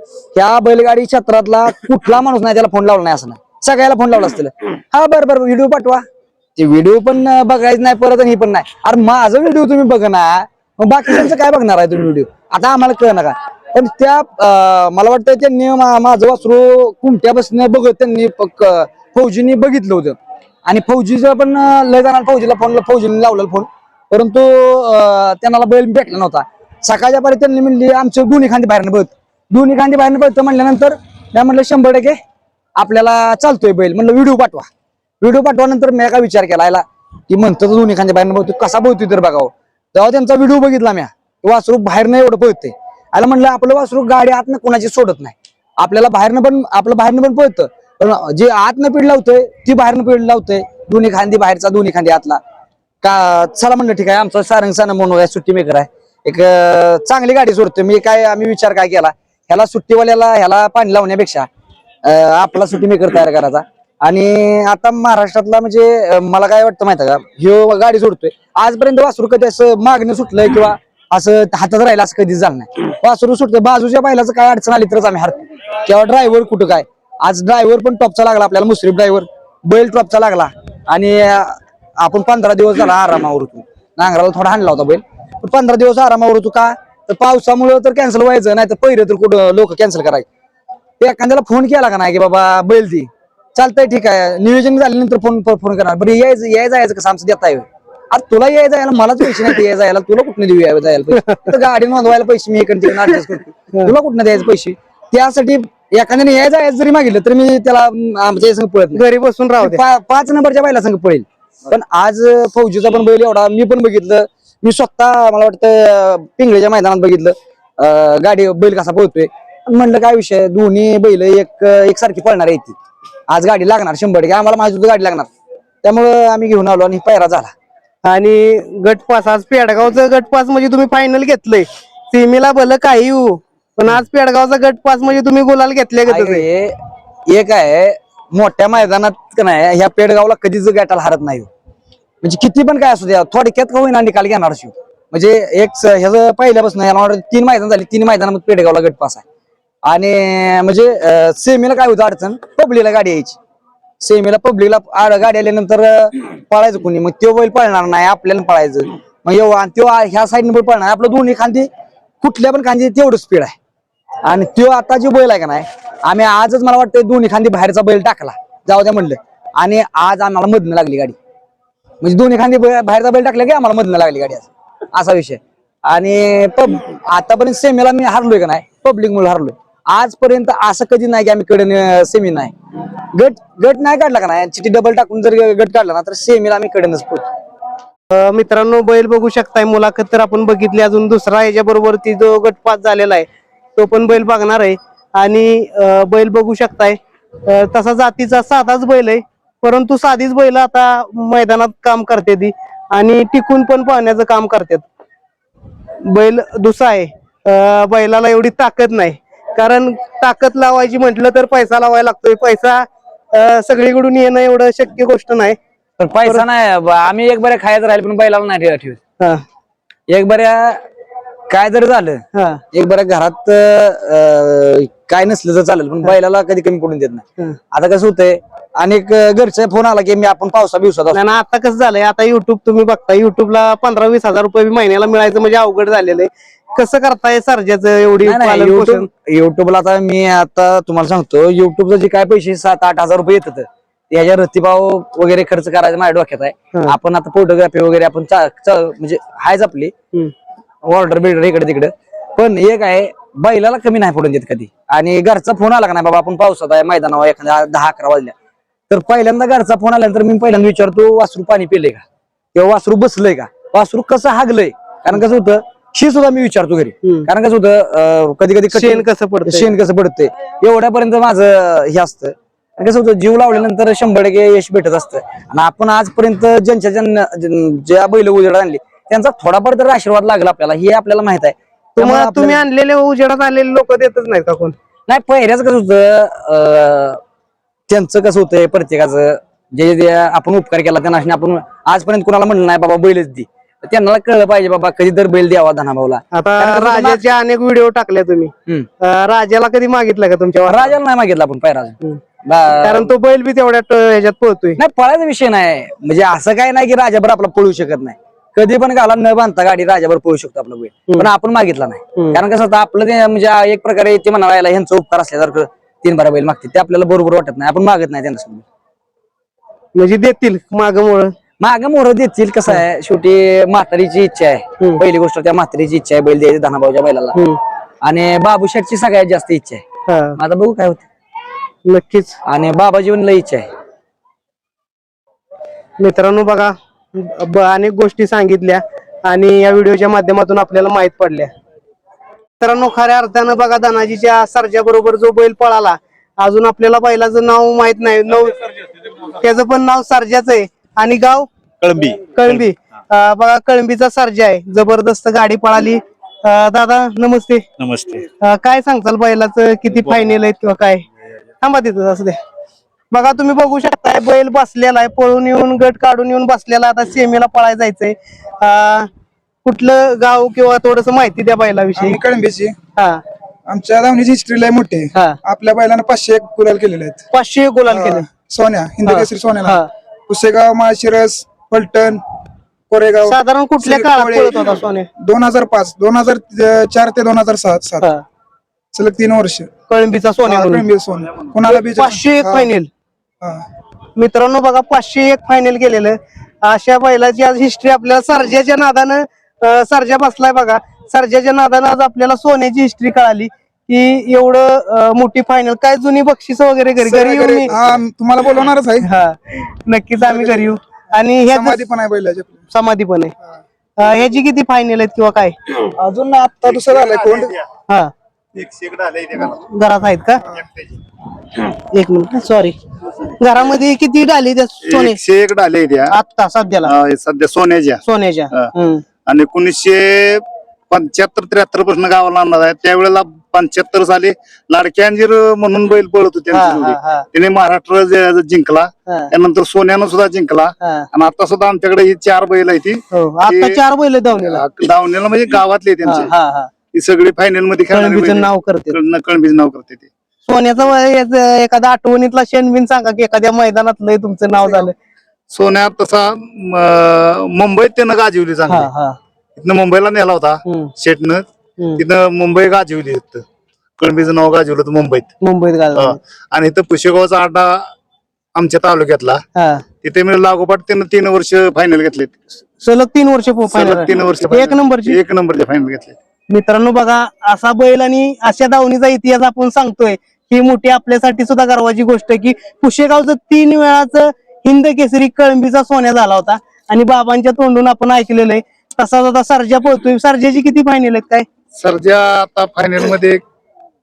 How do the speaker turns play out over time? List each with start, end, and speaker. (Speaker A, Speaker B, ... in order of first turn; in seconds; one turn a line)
Speaker A: 0.3-6.0
Speaker A: 6.6-32.2
Speaker A: 32.8-34.7
Speaker A: 35.2-52.4
Speaker A: 53.0-61.5
Speaker A: 62.0-90.3
Speaker A: 91.0-109.0
Speaker B: 101.3-101.5
Speaker B: 108.9-109.8
Speaker A: 109.6-122.8
Speaker A: 123.3-125.3
Speaker A: 125.8-127.5
Speaker B: 128.0-136.4
Speaker A: 136.1-136.8
Speaker A: 137.3-141.5
Speaker A: 142.2-149.2
Speaker A: 149.8-153.4
Speaker A: 154.0-161.7
Speaker A: 162.2-163.6
Speaker A: 164.2-171.2
Speaker A: 172.0-182.5
Speaker A: 183.1-187.3
Speaker B: 188.1-204.8
Speaker B: 206.0-215.6
Speaker A: 216.0-219.0
Speaker A: 220.1-220.8
Speaker A: 221.5-231.2
Speaker B: 222.3-222.6
Speaker B: 231.1-239.1
Speaker A: 238.2-249.9
Speaker A: 250.8-258.3
Speaker A: 258.9-282.6
Speaker B: 267.0-267.3
Speaker B: 268.7-269.7
Speaker B: 282.0-284.8
Speaker A: 285.1-287.2
Speaker A: 287.9-297.2
Speaker B: 296.3-301.0
Speaker A: 300.6-303.1
Speaker B: 302.8-304.8
Speaker A: 304.8-318.6
Speaker B: 319.9-321.3
Speaker A: 321.6-327.4
Speaker A: 328.0-329.8
Speaker B: 330.1-330.4
Speaker A: 330.4-331.1
Speaker B: 331.9-332.4
Speaker A: 332.5-333.7
Speaker B: 336.0-341.5
Speaker B: 342.6-348.6
Speaker B: 349.2-351.5
Speaker C: 351.8-352.2
Speaker B: 352.2-357.7
Speaker C: 357.8-358.3
Speaker B: 358.4-361.1
Speaker B: 361.6-362.4
Speaker B: 363.1-369.1
Speaker B: 369.6-372.2
Speaker D: 372.0-372.8
Speaker B: 373.0-373.2
Speaker D: 373.7-377.2
Speaker B: 377.3-378.3
Speaker D: 377.9-382.2
Speaker B: 379.1-379.9
Speaker D: 382.9-388.1
Speaker B: 383.2-385.1
Speaker D: 388.9-389.7
Speaker B: 389.9-390.9
Speaker D: 390.4-392.7
Speaker B: 391.6-392.9
Speaker B: 394.2-407.8
Speaker D: 407.0-409.1
Speaker B: 409.0-411.8
Speaker D: 410.3-410.7
Speaker D: 411.5-412.6
Speaker B: 412.7-413.3
Speaker B: 414.0-415.9
Speaker D: 416.0-417.6
Speaker C: 416.9-417.5
Speaker C: 418.6-419.6
Speaker B: 419.4-420.4
Speaker B: 421.6-425.2
Speaker C: 424.9-426.1
Speaker B: 426.1-426.9
Speaker C: 426.9-428.0
Speaker B: 428.1-429.0
Speaker C: 429.3-443.8
Speaker B: 436.5-437.2
Speaker B: 440.8-441.1
Speaker B: 443.1-444.6
Speaker C: 444.4-446.3
Speaker B: 446.0-446.7
Speaker C: 446.9-450.1
Speaker B: 447.9-449.0
Speaker B: 450.5-454.9
Speaker C: 455.5-458.9
Speaker B: 458.7-459.2
Speaker C: 459.6-461.5
Speaker C: 462.0-463.4
Speaker C: 464.0-465.3
Speaker B: 465.4-466.2
Speaker C: 466.0-467.9
Speaker C: 468.6-469.4
Speaker B: 469.6-469.9
Speaker C: 470.0-472.5
Speaker B: 472.8-475.2
Speaker C: 473.7-476.2
Speaker B: 476.5-491.5
Speaker C: 491.8-493.4